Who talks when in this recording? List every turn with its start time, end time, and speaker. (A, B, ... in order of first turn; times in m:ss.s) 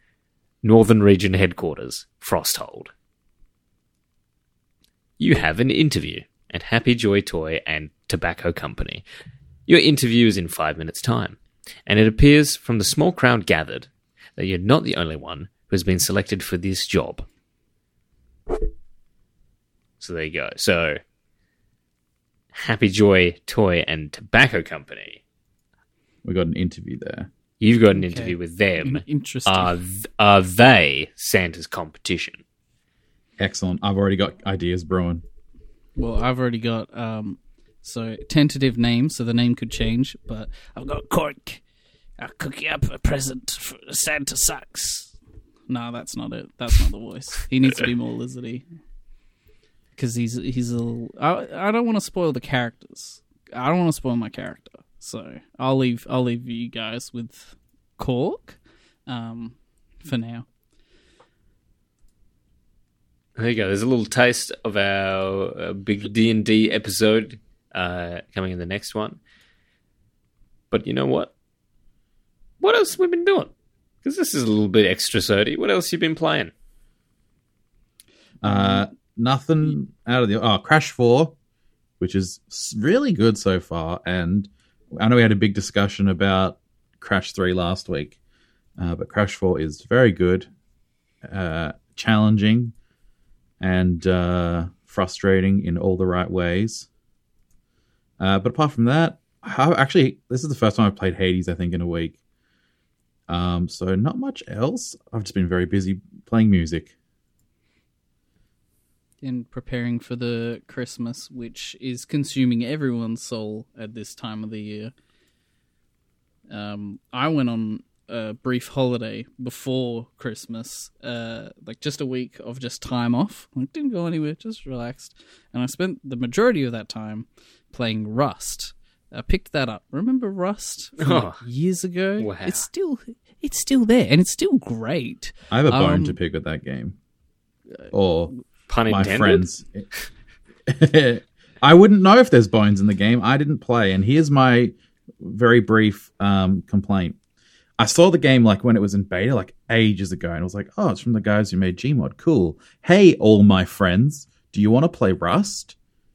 0:00.6-0:02.9 A
0:05.2-0:09.0 A
0:09.7-0:17.3 A
0:20.0-0:21.0 A
0:22.5-0:25.2 A
0:26.2-0:27.3 B
0:27.6-0:32.4 A
0:27.9-0:29.7 C
0:33.4-0:35.2 B
0:36.0-0:41.6 C
0:42.2-0:45.1 C
0:45.7-0:48.7 C
0:50.0-1:00.5 C
1:03.4-1:09.2 A
1:10.7-1:11.3 A
1:12.6-1:13.5 A
1:14.0-1:16.5 A
1:18.4-1:21.4 B
1:22.0-1:28.2 B
1:28.8-1:30.5 B
1:31.2-1:32.7 B
1:33.6-1:36.9 B
1:38.2-1:42.2 B
1:43.3-1:46.9 B
1:49.2-1:54.9 C
1:56.5-2:16.2 C
2:11.0-2:11.4 A
2:12.2-2:12.6 A
2:15.5-2:17.0 B
2:17.9-2:18.3 B
2:18.7-2:19.5 A
2:18.9-2:19.9 B
2:20.7-2:27.2 B
2:27.8-2:35.8 B